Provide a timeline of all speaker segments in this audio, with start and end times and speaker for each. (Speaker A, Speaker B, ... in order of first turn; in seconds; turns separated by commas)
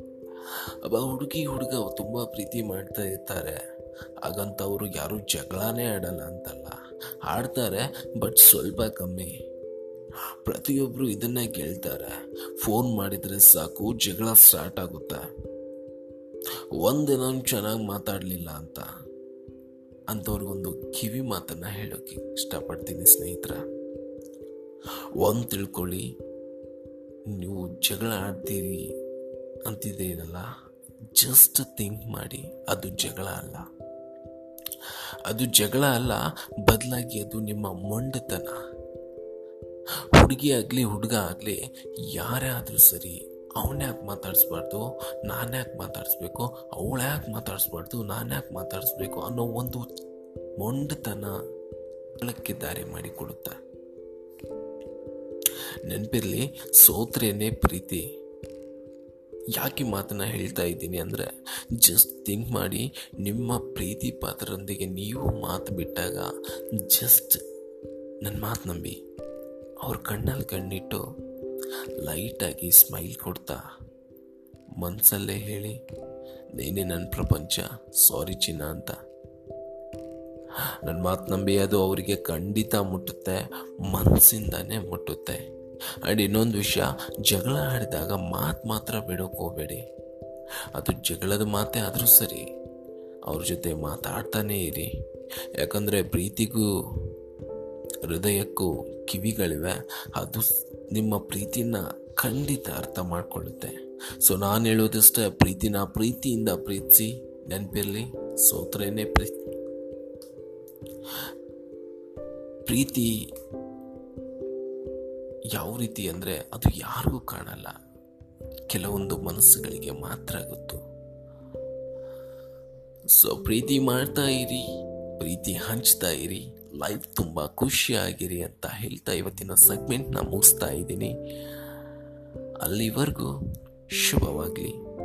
Speaker A: 0.5-3.6, Speaker A: 4.2-6.8, Speaker A: 7.2-9.3, Speaker A: 10.4-15.2, Speaker A: 16.8-18.9, Speaker A: 20.1-23.6, Speaker A: 25.2-26.1, Speaker A: 27.3-28.9, Speaker A: 29.7-30.5, Speaker A: 31.1-33.7, Speaker A: 34.8-38.6, Speaker A: 40.1-41.6, Speaker A: 42.1-49.9, Speaker A: 50.6-51.3, Speaker A: 52.2-53.6, Speaker A: 55.9-58.0, Speaker A: 59.5-67.4, Speaker A: 68.2-69.0, Speaker A: 69.8-71.0, Speaker A: 72.0-73.6, Speaker A: 74.8-75.8, Speaker A: 76.5-79.0, Speaker A: 80.8-85.4, Speaker A: 86.0-89.8, Speaker A: 90.8-92.4, Speaker A: 93.3-94.9, Speaker A: 95.6-97.1, Speaker A: 98.0-109.5, Speaker A: 112.7-113.1, Speaker A: 115.5-117.7, Speaker A: 118.7-120.8, Speaker A: 123.1-124.7, Speaker A: 125.2-131.1, Speaker A: 132.6-133.3, Speaker A: 133.9-134.7